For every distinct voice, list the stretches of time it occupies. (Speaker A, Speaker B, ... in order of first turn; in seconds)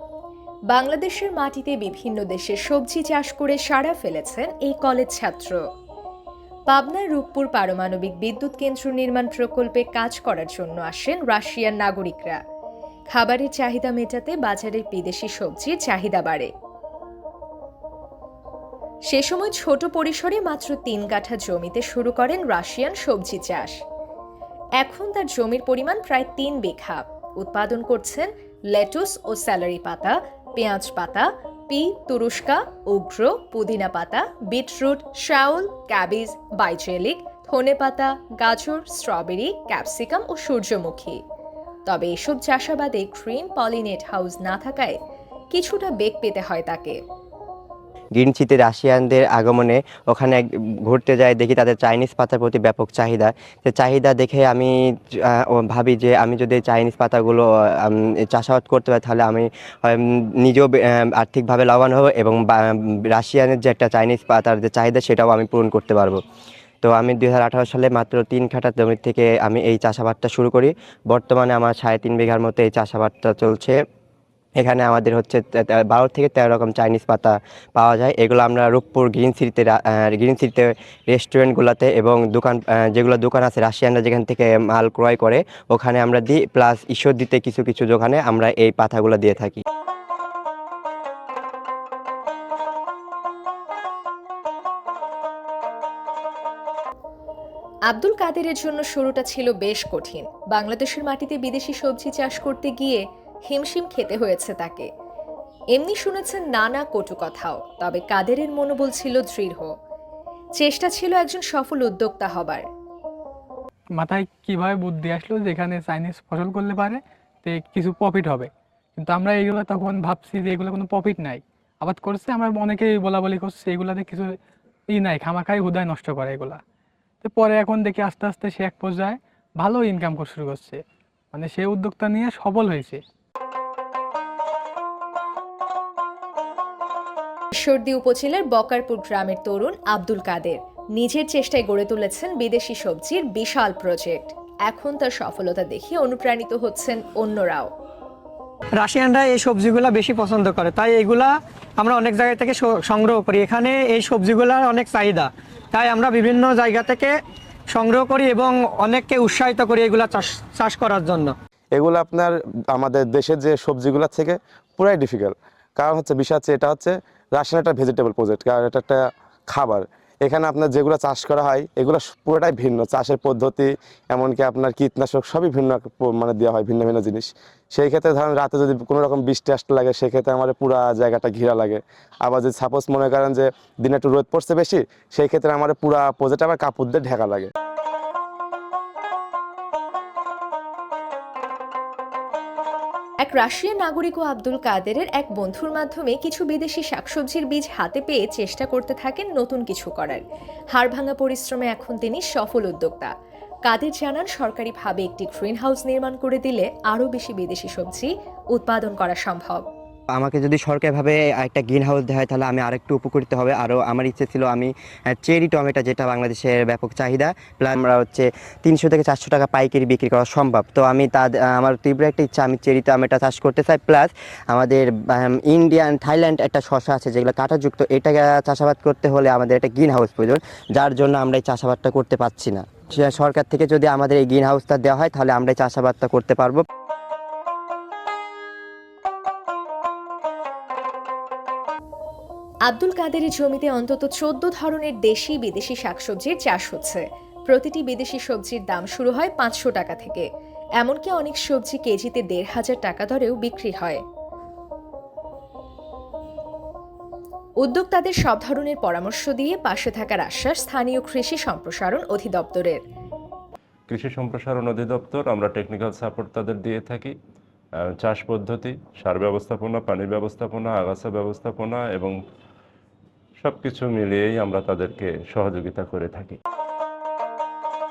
Speaker A: 0.7-5.6, 6.7-12.4, 13.1-16.5, 19.1-23.8, 24.8-41.2, 41.9-45.0, 45.5-47.0, 97.9-104.9, 105.7-109.7, 110.6-112.7, 137.5-147.7, 193.2-200.2, 200.7-203.1, 203.7-209.7, 242.7-250.3, 250.8-254.0, 257.6-262.8
Speaker B: 48.2-66.2, 66.8-73.8, 74.6-89.6, 210.1-236.6
Speaker C: 114.0-124.3, 124.9-126.6, 127.2-130.8, 131.3-133.0
Speaker D: 148.8-157.1, 157.7-161.4
Speaker E: 161.7-187.5
Speaker F: 263.9-267.1, 268.0-272.2, 273.4-276.4